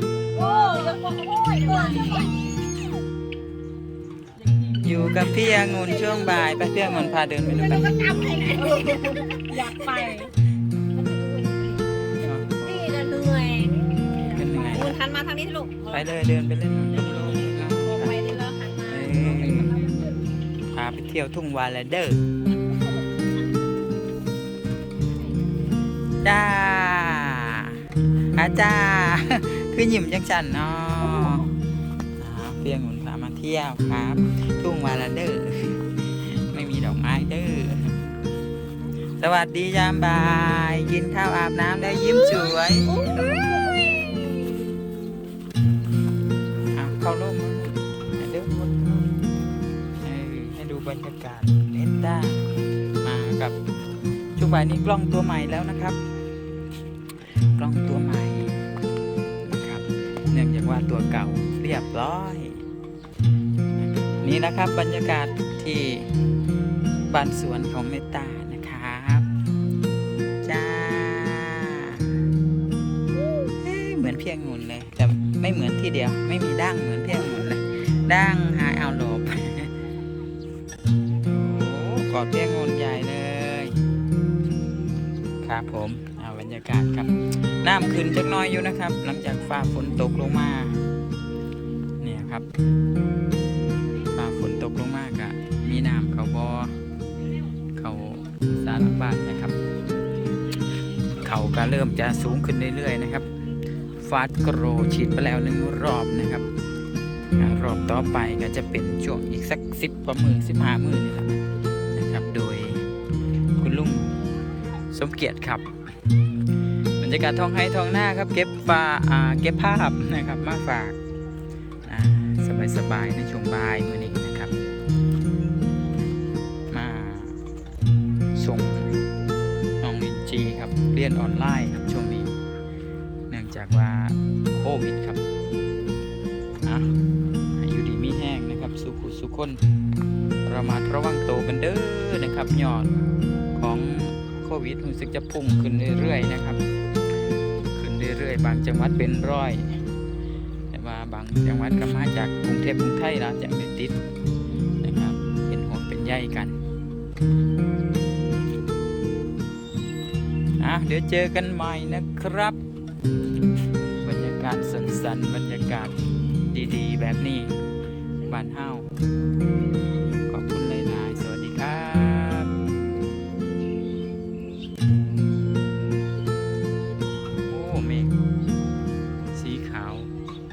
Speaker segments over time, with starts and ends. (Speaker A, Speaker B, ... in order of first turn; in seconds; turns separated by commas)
Speaker A: 0.4-2.3, Speaker B: 4.7-8.2, Speaker A: 7.6-10.3, Speaker A: 10.9-11.9, Speaker B: 12.2-13.0, Speaker A: 12.6-16.2, Speaker B: 14.2-15.0, Speaker B: 15.9-18.3, Speaker A: 17.3-20.1, Speaker B: 18.9-19.9, Speaker B: 20.7-22.4, Speaker B: 26.2-31.6, Speaker B: 32.2-38.0, Speaker B: 39.2-42.9, Speaker A: 42.9-44.7, Speaker B: 46.7-49.2, Speaker B: 50.0-52.5, Speaker B: 53.0-53.6, Speaker B: 54.4-56.0, Speaker B: 57.4-58.6, Speaker B: 59.4-62.6, Speaker B: 63.8-66.1, Speaker B: 67.0-69.3, Speaker B: 70.4-72.1, Speaker B: 73.6-79.7, Speaker B: 81.2-83.8, Speaker B: 85.4-90.8, Speaker B: 92.0-92.5, Speaker B: 94.1-96.8, Speaker B: 97.8-99.6, Speaker B: 101.2-103.3, Speaker B: 104.0-106.5, Speaker B: 107.3-112.9, Speaker B: 113.6-114.2, Speaker B: 114.9-115.7, Speaker B: 117.0-121.0, Speaker B: 121.9-124.5, Speaker B: 126.7-127.4, Speaker B: 128.4-128.9, Speaker B: 129.8-132.4, Speaker B: 133.3-135.2, Speaker B: 136.6-136.9, Speaker B: 137.6-139.6, Speaker B: 140.4-142.9, Speaker B: 143.6-146.6, Speaker B: 147.8-149.8, Speaker B: 150.7-154.0, Speaker B: 154.8-156.6, Speaker B: 160.6-162.6, Speaker B: 164.0-167.6, Speaker B: 168.2-168.9, Speaker B: 170.2-172.5, Speaker B: 177.5-178.2, Speaker B: 179.3-180.1